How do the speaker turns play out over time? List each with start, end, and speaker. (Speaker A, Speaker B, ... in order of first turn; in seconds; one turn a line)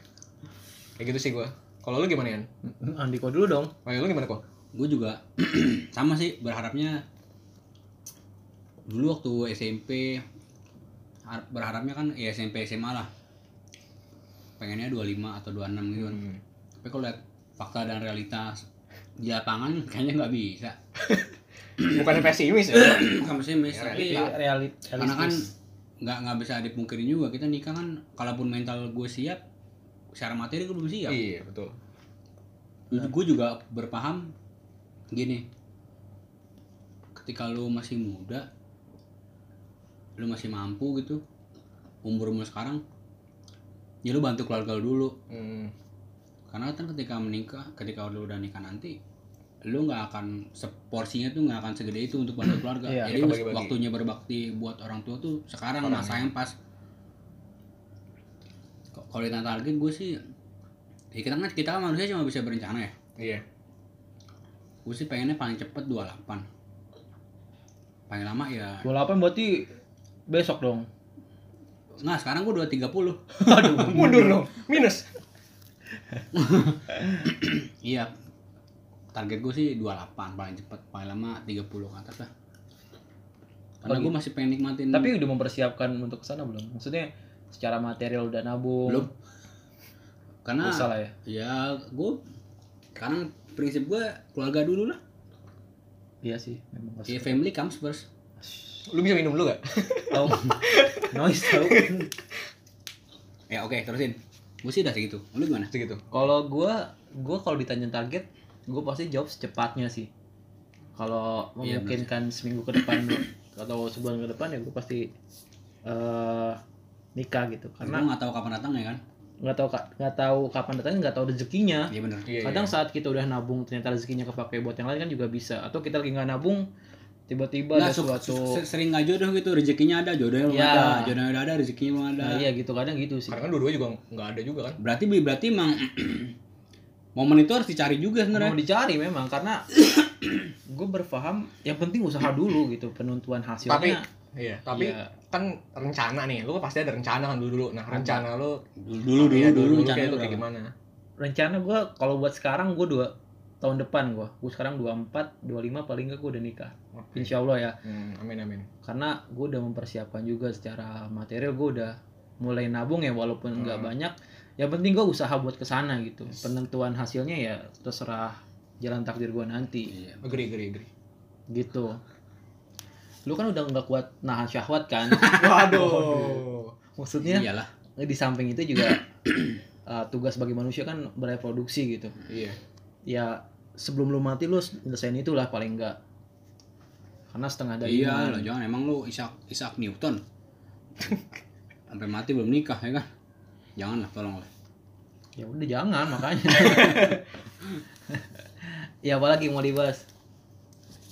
Speaker A: 1.0-2.5
Speaker B: 2.6-3.7
Speaker A: 3.9-4.4
Speaker C: 4.7-7.0
Speaker C: 8.9-10.2
Speaker C: 11.3-13.1
Speaker C: 14.6-16.2
Speaker A: 16.0-16.4
Speaker C: 16.8-18.6
Speaker C: 19.2-20.8
Speaker A: 21.8-24.3
Speaker C: 21.8-22.1
Speaker C: 22.7-24.3
Speaker B: 23.9-25.4
Speaker C: 25.0-25.5
Speaker C: 26.0-29.4
Speaker C: 30.1-31.2
Speaker A: 31.1-31.7
Speaker C: 32.9-34.3
Speaker C: 35.1-35.4
Speaker C: 37.2-38.5
Speaker C: 40.2-41.2
Speaker C: 42.0-42.8
Speaker C: 44.0-45.1
Speaker A: 45.3-45.7
Speaker C: 46.5-49.0
Speaker C: 49.6-56.5
Speaker B: 52.9-53.1
Speaker A: 53.0-53.8
Speaker A: 55.8-56.3
Speaker C: 59.0-60.2
Speaker C: 61.1-62.9
Speaker A: 63.2-63.4
Speaker C: 64.8-66.5
Speaker C: 68.1-68.9
Speaker B: 68.8-69.7
Speaker B: 70.3-70.9
Speaker C: 72.0-74.3
Speaker B: 73.4-74.4
Speaker A: 73.9-75.1
Speaker C: 76.3-78.1
Speaker C: 79.1-82.3
Speaker C: 83.8-85.1
Speaker B: 83.9-84.1
Speaker B: 84.9-89.1
Speaker C: 90.5-92.2
Speaker B: 90.6-91.1
Speaker C: 93.0-95.0
Speaker B: 96.2-97.4
Speaker C: 97.1-98.1
Speaker B: 98.5-98.8
Speaker A: 98.9-102.1
Speaker B: 100.1-100.5
Speaker B: 101.1-102.1
Speaker C: 103.5-105.7
Speaker A: 105.7-106.0
Speaker B: 106.1-110.1
Speaker B: 111.0-115.1
Speaker C: 111.6-112.1
Speaker B: 115.9-116.6
Speaker B: 117.2-118.1
Speaker C: 117.8-119.0
Speaker B: 119.4-126.6
Speaker C: 121.9-122.3
Speaker A: 122.3-122.7
Speaker B: 127.3-128.6
Speaker C: 127.7-132.5
Speaker B: 130.5-131.1
Speaker B: 132.2-133.4
Speaker A: 133.3-134.8
Speaker C: 134.8-136.3
Speaker C: 137.2-138.6
Speaker B: 138.3-139.7
Speaker B: 140.7-144.0
Speaker A: 143.7-150.7
Speaker B: 144.7-145.1
Speaker C: 148.8-150.4
Speaker B: 151.2-157.8
Speaker A: 156.9-157.3
Speaker A: 157.8-158.7
Speaker B: 158.8-169.9
Speaker A: 163.6-163.9
Speaker C: 169.9-170.2
Speaker A: 170.2-170.9
Speaker B: 171.5-172.0
Speaker B: 173.3-176.4
Speaker C: 175.2-175.6
Speaker A: 175.2-176.8
Speaker B: 177.0-177.5
Speaker C: 177.2-177.7
Speaker B: 178.0-179.0
Speaker B: 179.9-182.2
Speaker A: 182.3-182.6
Speaker B: 183.1-186.0
Speaker B: 187.3-188.5
Speaker C: 187.8-190.2
Speaker C: 191.9-193.1
Speaker C: 193.8-194.5
Speaker B: 195.4-197.2
Speaker A: 196.6-197.2
Speaker B: 199.0-200.1